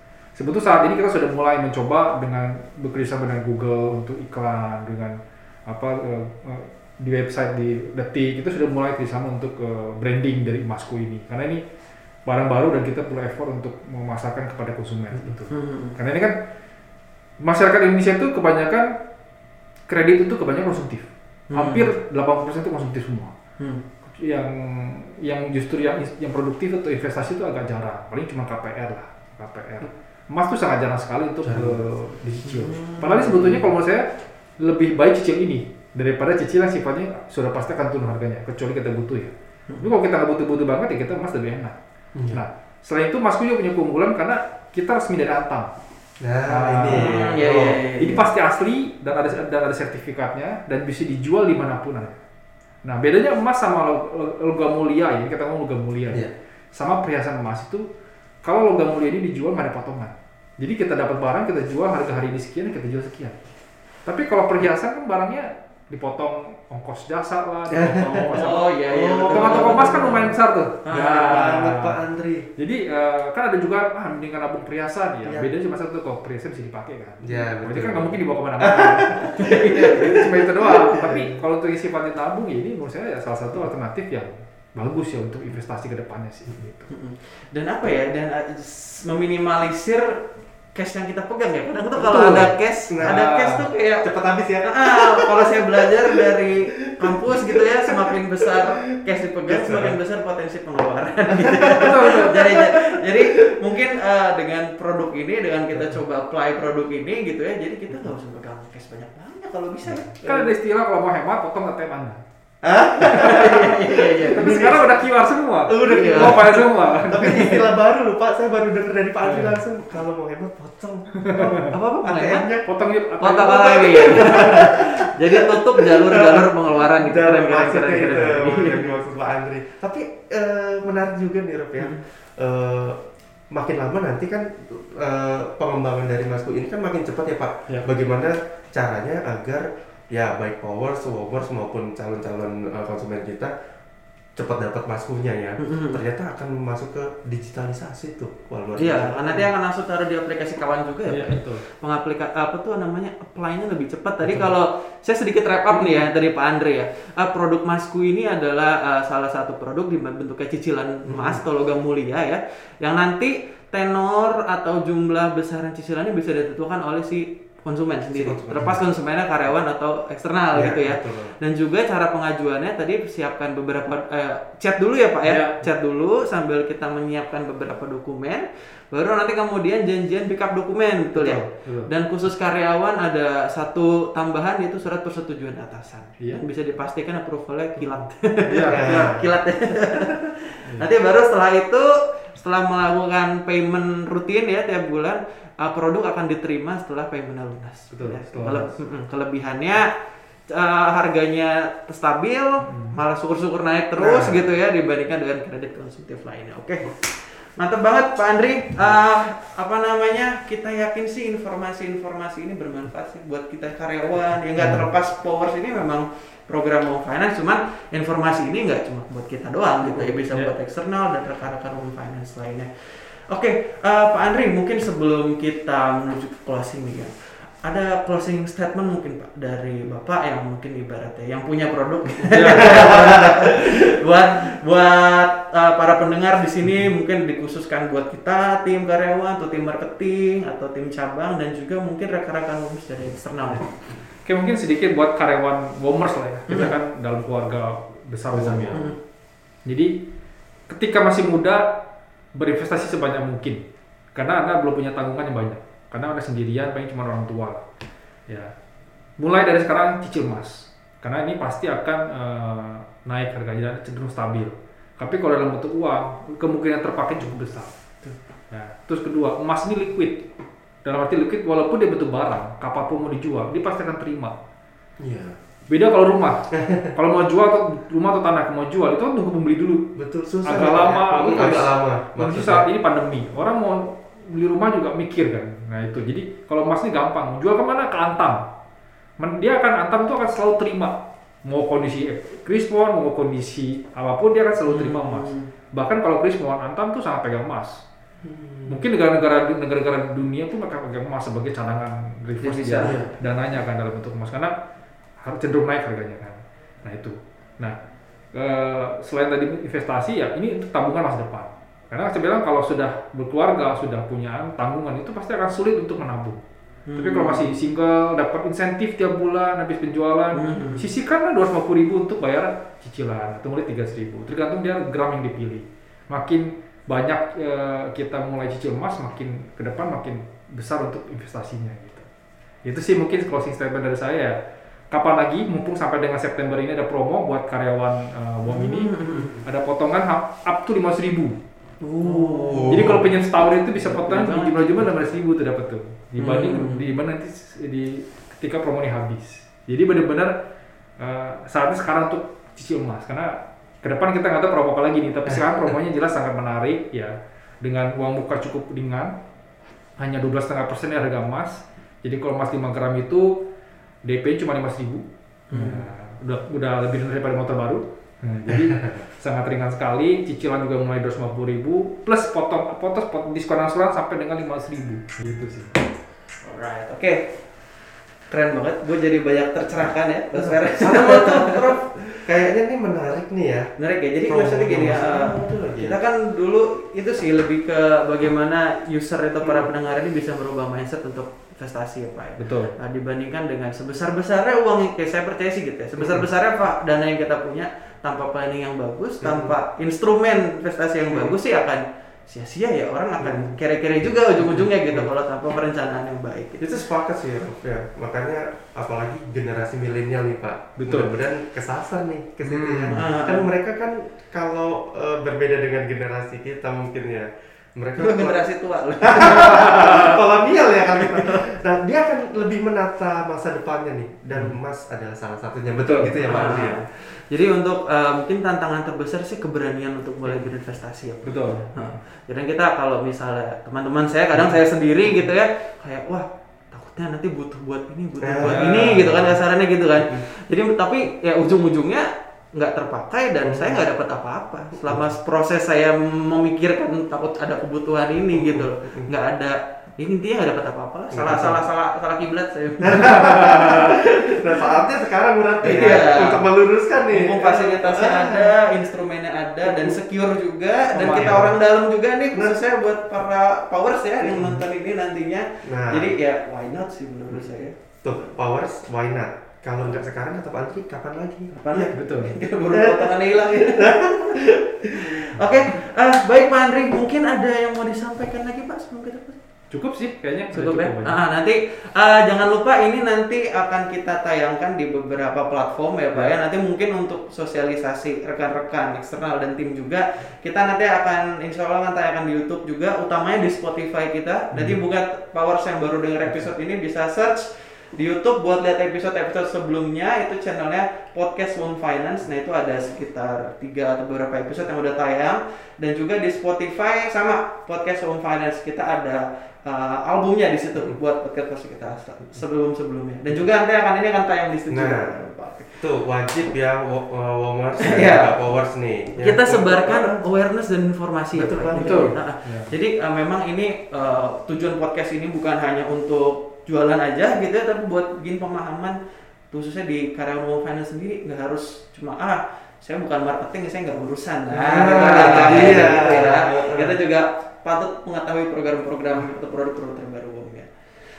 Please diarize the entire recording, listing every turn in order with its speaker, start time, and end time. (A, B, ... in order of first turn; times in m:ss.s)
0:00.4-0:11.6 A
0:12.2-0:16.4 A
0:15.5-0:16.0 B
0:17.4-0:19.0 A
0:19.9-0:23.4 A
0:21.5-0:21.9 B
0:24.1-0:34.1 A
0:31.4-0:31.8 C
0:32.4-0:33.7 B
0:34.6-0:41.8 A
0:42.2-0:42.4 C
0:42.3-0:45.7 A
0:46.2-0:47.8 C
0:46.5-0:52.2 A
0:46.9-0:48.2 B
0:52.8-0:57.9 A
0:58.4-1:03.4 A
1:04.1-1:12.0 A
1:07.7-1:10.1 C
1:08.3-1:10.3 B
1:10.8-1:11.6 B
1:10.9-1:12.5 C
1:12.6-1:26.9 A
1:15.2-1:15.5 C
1:17.2-1:21.4 C
1:19.3-1:20.2 B
1:26.9-1:50.5 B
1:32.0-1:33.7 A
1:32.9-1:33.2 C
1:34.0-1:38.6 C
1:39.5-1:40.0 C
1:41.4-1:43.5 C
1:41.8-1:42.5 A
1:50.2-1:52.2 A
1:52.6-1:55.0 C
1:53.0-1:54.7 B
1:54.3-1:57.6 A
1:55.7-2:02.7 C
1:55.8-1:56.4 B
1:59.2-1:59.6 A
2:01.2-2:01.7 A
2:01.7-2:02.5 B
2:02.6-2:04.5 A
2:03.2-2:08.9 B
2:03.3-2:23.5 C
2:24.4-2:29.5 C
2:25.6-2:26.0 B
2:28.8-3:19.9 B
2:31.1-2:31.6 A
2:41.1-2:41.4 C
2:48.1-2:48.8 C
2:50.5-2:51.4 C
2:55.3-2:55.6 A
3:01.2-3:01.9 A
3:08.5-3:09.1 A
3:08.7-3:09.3 C
3:17.9-3:18.7 A
3:20.5-4:03.8 B
3:22.6-3:23.0 A
3:24.0-3:24.4 C
3:34.6-3:34.8 A
3:52.3-3:52.9 A
4:04.2-4:08.9 A
4:08.3-4:08.9 C
4:09.6-4:10.0 A
4:10.7-4:11.8 A
4:12.3-4:13.6 A
4:14.1-4:17.6 A
4:18.3-4:18.5 A
4:19.2-4:27.7 A
4:28.5-4:30.3 A
4:30.8-4:34.4 A
4:35.0-4:35.4 C
4:35.7-4:39.9 A
4:36.5-4:36.9 C
4:40.0-4:42.7 C
4:40.4-4:48.5 A
4:49.2-4:57.8 A
4:54.6-4:55.5 B
4:58.2-4:58.8 C
4:58.7-5:04.6 A
5:02.4-5:03.1 B
5:02.8-5:03.1 C
5:05.2-5:07.8 A
5:08.3-5:16.4 A
5:16.9-5:17.5 B
5:17.0-5:32.1 A
5:20.3-5:20.9 B
5:32.6-5:34.4 A
5:34.9-5:41.4 A
5:38.5-5:39.4 B
5:41.8-5:43.1 C
5:42.0-5:43.0 B
5:42.7-5:50.4 A
5:43.8-5:44.9 B
5:46.2-5:46.9 B
5:51.0-5:59.2 A
5:55.3-5:55.7 C
6:00.0-6:03.4 A
6:04.0-6:15.8 A
6:05.5-6:05.9 B
6:08.6-6:08.8 C
6:16.4-6:17.4 B
6:18.3-6:21.8 B
6:20.4-6:23.7 C
6:23.8-6:46.7 B
6:24.2-6:26.0 C
6:29.4-6:29.7 C
6:32.4-6:32.7 A
6:39.2-6:39.6 C
6:41.1-6:41.4 C
6:43.2-6:43.5 C
6:46.6-6:58.4 C
6:50.8-6:51.1 A
6:52.5-6:53.0 A
6:52.9-6:53.5 B
6:58.0-7:00.2 B
6:59.0-7:06.8 C
6:59.5-7:00.0 A
7:00.8-7:01.5 B
7:05.8-7:06.2 A
7:06.2-7:34.7 B
7:11.2-7:12.0 A
7:18.2-7:19.3 C
7:18.4-7:19.3 A
7:20.0-7:20.2 C
7:23.4-7:23.8 C
7:24.8-7:25.0 C
7:28.3-7:29.1 C
7:31.1-7:31.6 C
7:32.8-7:38.6 C
7:35.6-7:36.5 B
7:37.1-7:47.8 B
7:39.6-7:40.0 C
7:40.9-7:41.5 A
7:41.1-7:41.4 C
7:44.2-7:44.6 C
7:45.6-7:46.1 C
7:48.0-7:51.9 C
7:51.5-7:59.4 B
7:51.9-7:52.4 A
7:52.7-7:55.2 C
7:59.7-8:01.2 A
8:00.5-8:35.8 B
8:14.5-8:14.8 A
8:34.7-8:35.1 C
8:35.8-8:40.2 C
8:37.8-8:38.4 B
8:39.2-8:49.0 B
8:41.4-8:42.1 C
8:41.8-8:42.7 A
8:49.5-9:00.7 B
8:54.5-8:57.0 C
8:55.3-8:55.7 A